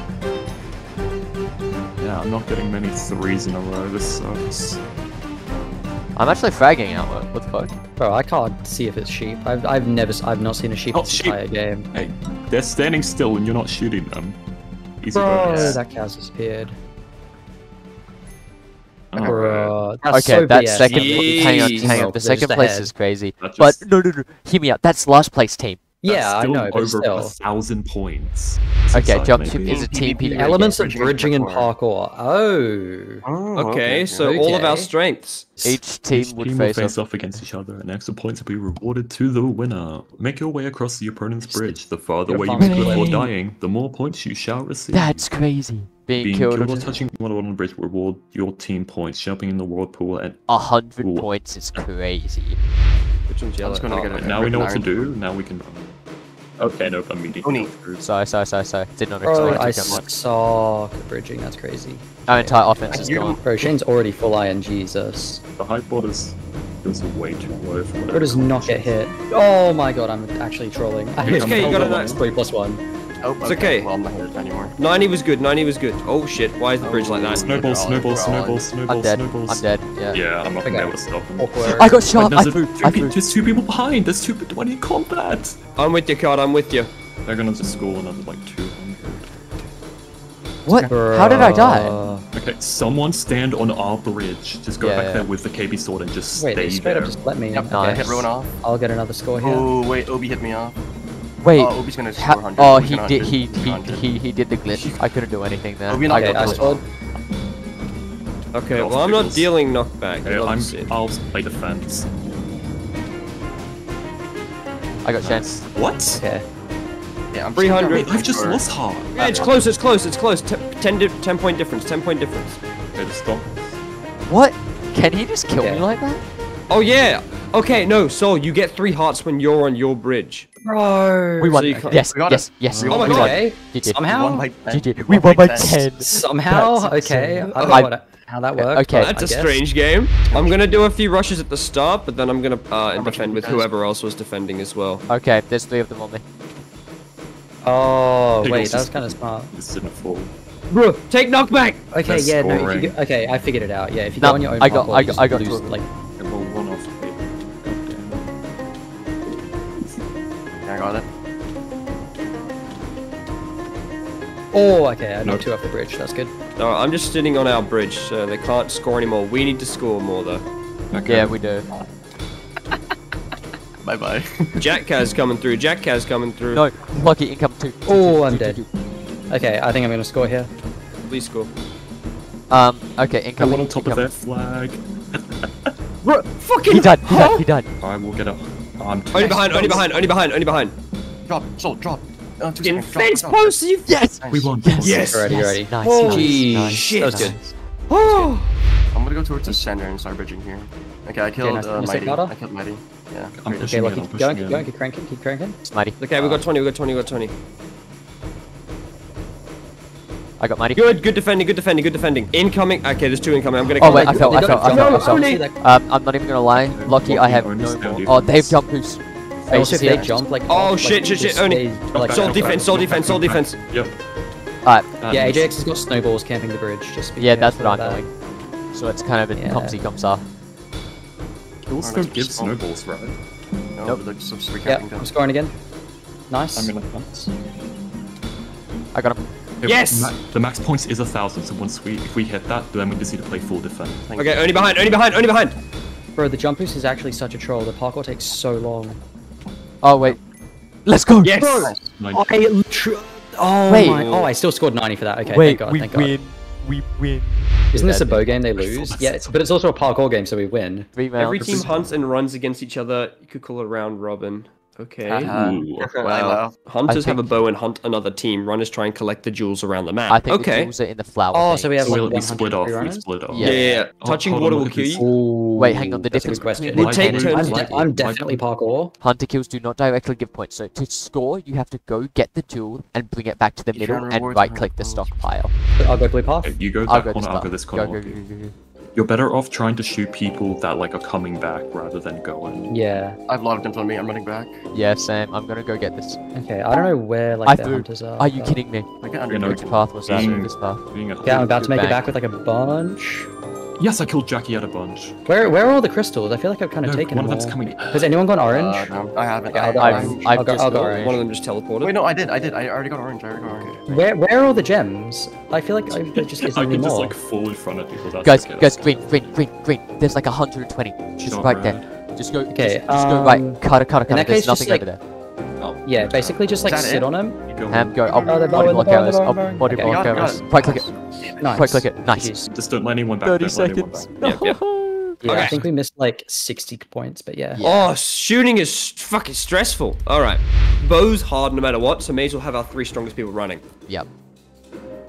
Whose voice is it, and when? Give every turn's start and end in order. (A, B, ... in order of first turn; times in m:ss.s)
0:02.0-0:04.8 A
0:06.2-0:07.7 B
0:08.0-0:11.9 C
0:10.9-0:11.4 A
0:11.9-0:14.4 A
0:15.0-0:15.8 A
0:15.1-0:16.8 C
0:15.5-0:15.8 D
0:19.1-0:19.7 A
0:19.2-0:22.9 C
0:20.1-0:25.8 B
0:20.8-0:22.0 E
0:23.4-0:23.8 A
0:26.0-0:27.3 C
0:26.0-0:29.8 A
0:28.9-0:30.7 B
0:29.6-0:31.7 D
0:30.3-0:33.2 C
0:33.2-0:34.5 D
0:33.6-0:35.5 E
0:34.2-0:34.9 C
0:35.6-0:37.4 B
0:36.1-0:45.3 A
0:41.4-0:41.8 B
0:42.3-0:43.3 C
0:42.5-0:43.3 B
0:44.9-0:47.0 B
0:46.2-0:51.8 A
0:50.5-0:52.6 B
0:53.3-0:54.3 E
0:53.6-0:55.1 D
0:54.2-0:56.0 A
0:56.6-0:58.0 A
0:57.4-0:57.7 D
0:58.0-1:00.0 B
0:59.2-1:05.4 C
0:59.4-1:00.0 D
1:02.3-1:03.4 B
1:02.9-1:03.7 D
1:05.6-1:08.9 A
1:08.1-1:12.8 C
1:11.2-1:12.2 A
1:11.3-1:12.2 E
1:13.2-1:14.8 D
1:13.4-1:13.9 E
1:14.8-1:17.7 E
1:16.8-1:18.6 D
1:17.3-1:25.6 A
1:18.9-1:20.2 B
1:20.6-1:21.9 C
1:21.6-1:23.2 B
1:25.8-1:26.9 E
1:27.2-1:29.3 A
1:30.6-1:31.9 B
1:30.9-1:32.2 C
1:32.3-1:37.2 A
1:34.8-1:35.3 B
1:36.4-1:39.8 C
1:37.5-1:38.5 D
1:37.7-1:38.3 B
1:39.4-1:40.7 D
1:41.4-1:46.8 B
1:41.5-1:44.1 D
1:44.7-1:45.1 A
1:45.9-1:46.8 D
1:46.1-1:46.8 C
1:48.5-1:50.9 E
1:48.7-1:49.5 A
1:50.2-1:52.1 A
1:55.0-1:55.5 B
1:55.2-1:56.2 A
1:56.1-1:56.4 C
1:57.3-1:58.6 D
1:57.6-1:58.1 E
1:57.8-1:59.5 A
1:59.1-1:59.5 D
1:59.1-2:02.6 E
2:02.9-2:03.8 A
2:04.3-2:06.2 B
2:05.6-2:05.8 C
2:06.7-2:10.5 E
2:10.6-2:12.0 C
2:11.4-2:14.0 B
2:11.5-2:12.0 E
2:12.0-2:13.4 D
2:12.7-2:13.1 A
2:12.9-2:13.4 E
2:13.0-2:14.5 C
2:14.1-2:16.0 D
2:14.6-2:17.9 B
2:16.0-2:19.6 C
2:17.6-2:17.9 E
2:18.5-2:19.1 B
2:18.9-2:25.0 E
2:20.2-2:20.8 D
2:22.9-2:23.7 D
2:25.1-2:26.2 B
2:27.6-2:29.5 C
2:28.4-2:30.3 A
2:30.7-2:31.8 E
2:31.9-2:35.8 C
2:32.0-2:32.9 A
2:34.2-2:35.7 B
2:36.2-2:38.4 A
2:40.6-2:41.0 D
2:44.5-2:46.3 C
2:46.6-2:50.4 E
2:50.9-2:51.3 A
2:51.1-2:51.6 B
2:53.8-2:54.6 D
2:54.6-2:56.6 E
2:56.5-2:58.7 B
2:57.9-2:58.6 C
2:59.3-3:00.5 C
3:01.1-3:01.5 E
3:02.5-3:04.1 B
3:03.4-3:05.7 A
3:06.0-3:07.4 E
3:06.6-3:07.7 B
3:07.8-3:10.0 A
3:09.1-3:10.7 E
3:09.5-3:09.8 D
3:11.2-3:13.6 D
3:12.6-3:13.9 E
3:13.9-3:17.4 B
3:14.2-3:14.6 D
3:14.3-3:15.3 A
3:14.8-3:18.5 E
3:14.9-3:17.4 C
3:18.9-3:23.7 D
3:21.4-3:22.3 C
3:23.3-3:24.7 A
3:23.6-3:25.6 C
3:25.6-3:26.4 B
3:26.0-3:27.3 E
3:30.4-3:30.8 B
3:30.8-3:35.4 E
3:33.8-3:35.6 C
3:33.8-3:40.2 B
3:36.5-3:38.6 A
3:39.5-3:42.7 C
3:40.5-3:43.6 E
3:41.9-3:43.9 A
3:44.6-3:44.9 B
3:45.0-3:45.5 A
3:45.1-3:48.0 C
3:47.2-3:48.1 B
3:48.7-3:50.2 B
3:49.4-3:49.8 C
3:51.7-3:53.2 A
3:51.8-3:52.5 D
3:53.7-3:55.1 D
3:54.6-3:55.5 C
3:56.3-3:56.7 C
3:56.5-3:57.3 A
3:58.9-3:59.2 B
3:59.6-4:04.4 A
3:59.6-4:00.1 E
4:04.1-4:04.8 D
4:04.2-4:05.6 E
4:06.2-4:09.0 C
4:09.8-4:10.2 B
4:10.8-4:11.7 B
4:11.2-4:11.7 E
4:11.4-4:16.1 C
4:11.6-4:11.9 D
4:12.0-4:12.3 A
4:13.7-4:14.1 B
4:13.8-4:14.3 E
4:15.2-4:18.4 B
4:17.7-4:20.9 C
4:18.6-4:19.5 A
4:20.9-4:21.7 B
4:21.2-4:25.4 E
4:21.4-4:22.0 A
4:25.0-4:26.6 D
4:25.2-4:25.9 A
4:26.0-4:30.7 E
4:26.8-4:27.3 B
4:30.1-4:32.0 B
4:31.3-4:33.1 C
4:31.8-4:35.1 A
4:33.3-4:33.8 B
4:33.4-4:35.0 E
4:35.0-4:38.9 C
4:35.6-4:37.1 B
4:36.2-4:38.4 A
4:36.7-4:37.7 E
4:39.0-4:45.5 B
4:43.7-4:45.2 D
4:45.8-4:46.5 C
4:46.4-4:48.2 A
4:46.9-4:48.5 B
4:48.9-4:52.7 A
4:52.7-4:53.2 C
4:53.3-4:54.6 D
4:54.7-4:56.2 B
4:56.3-4:58.6 C
4:57.4-4:58.9 B
4:59.0-5:00.2 D
4:59.3-5:02.1 A
4:59.4-5:00.8 B
5:01.2-5:03.3 C
5:01.7-5:02.0 B
5:03.8-5:05.2 A
5:05.3-5:09.0 C
5:06.8-5:08.2 A
5:08.5-5:10.4 D
5:09.5-5:11.2 C
5:09.8-5:11.2 B
5:10.6-5:12.0 E
5:11.8-5:13.8 D
5:13.8-5:17.1 C
5:15.9-5:19.4 A
5:18.2-5:25.0 B
5:21.2-5:21.9 A
5:22.5-5:24.8 C
5:25.6-5:26.6 A
5:25.8-5:27.4 C
5:26.6-5:27.1 D
5:27.5-5:28.8 A
5:27.7-5:32.3 B
5:28.0-5:28.8 D
5:28.3-5:30.4 C
5:29.8-5:31.4 D
5:31.4-5:32.5 C
5:32.5-5:34.1 A
5:33.2-5:35.5 B
5:34.2-5:34.6 E
5:35.2-5:37.6 C
5:35.2-5:35.5 E
5:35.2-5:35.7 A
5:37.5-5:37.9 B
5:37.6-5:43.6 E